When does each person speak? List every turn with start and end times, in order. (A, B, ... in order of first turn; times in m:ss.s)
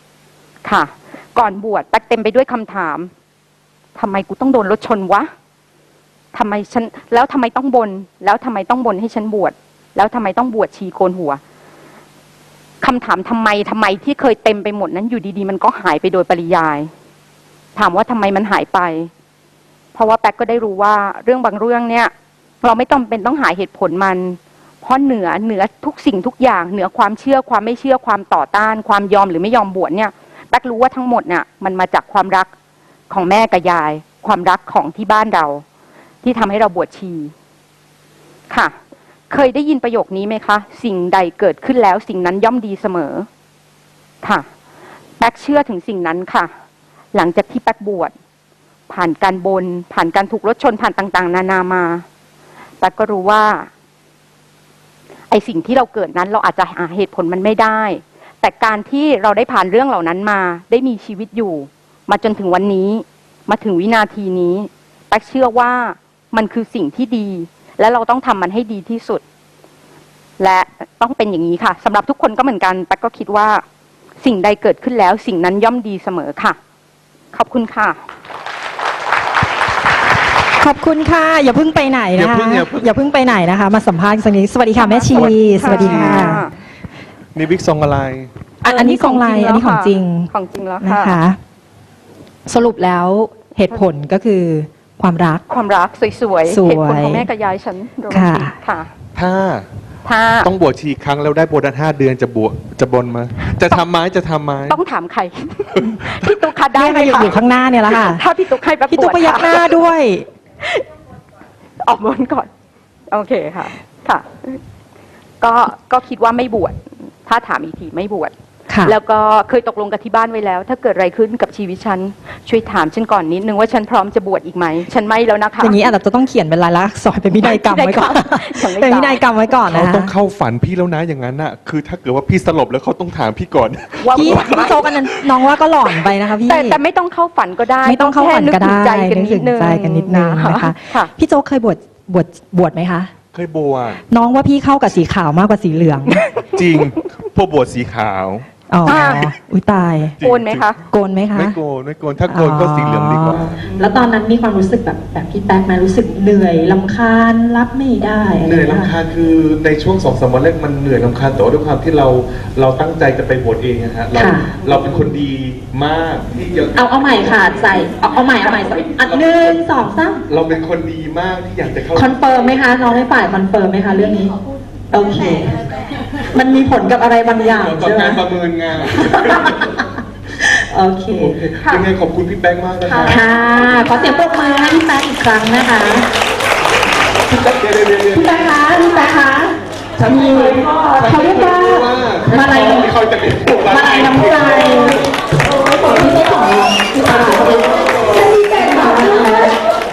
0:00.6-0:03.1 A
0:04.0-0:05.3 A
0:06.3-0:11.4 A
0:12.8-0:16.9 A
0:17.8-0:19.1 A
0:19.9-0:22.1 A
0:22.6-0:32.5 A
0:33.1-0:35.6 A
0:36.2-0:37.3 A
0:39.3-0:43.3 A
0:45.2-0:46.5 A
0:47.1-0:48.1 A
0:48.9-0:52.0 A
0:52.8-0:53.7 A
0:55.3-1:09.2 A
1:10.4-1:13.6 A
1:14.2-1:16.6 A
1:17.3-1:18.0 A
1:20.6-1:26.4 B
1:22.2-1:23.1 C
1:24.8-1:26.6 A
1:25.1-1:26.3 C
1:27.3-1:28.3 C
1:28.6-1:30.3 B
1:28.6-1:31.2 A
1:30.8-1:31.4 B
1:32.5-1:35.4 B
1:35.5-1:38.9 A
1:36.5-1:37.3 B
1:38.1-1:38.5 B
1:39.2-1:39.7 C
1:40.0-1:40.5 A
1:40.4-1:44.8 C
1:44.7-1:49.8 A
1:46.8-1:48.2 B
1:48.9-1:50.3 B
1:51.8-1:52.5 A
1:53.1-1:54.6 A
1:55.4-1:58.3 A
1:58.7-1:59.0 B
1:58.8-2:05.9 A
2:05.6-2:10.1 B
2:07.4-2:09.5 A
2:09.7-2:15.1 C
2:14.0-2:14.8 A
2:14.1-2:16.8 B
2:16.4-2:21.1 A
2:17.8-2:23.1 B
2:23.3-2:24.0 C
2:24.1-2:26.3 B
2:26.1-2:26.4 A
2:26.5-2:29.2 C
2:28.7-2:30.2 B
2:28.8-2:29.3 A
2:30.2-2:30.7 C
2:30.2-2:30.8 A
2:30.9-2:31.6 B
2:31.3-2:33.7 C
2:32.3-2:33.5 B
2:33.7-2:38.9 D
2:35.0-2:35.2 B
2:36.0-2:38.5 B
2:38.4-2:48.0 C
2:44.2-2:44.6 D
2:46.8-2:50.2 D
2:48.8-2:49.7 C
2:50.3-2:52.6 C
2:51.9-2:54.4 D
2:54.9-2:55.6 D
2:56.3-2:58.2 D
2:57.4-2:59.7 C
2:59.0-2:59.8 D
3:00.5-3:01.6 D
3:01.1-3:04.0 C
3:02.9-3:06.1 D
3:07.3-3:08.6 C
3:08.1-3:12.9 D
3:10.0-3:15.0 C
3:13.4-3:15.0 D
3:15.7-3:17.7 D
3:15.8-3:17.4 B
3:17.3-3:18.4 C
3:18.3-3:19.6 D
3:18.5-3:19.0 B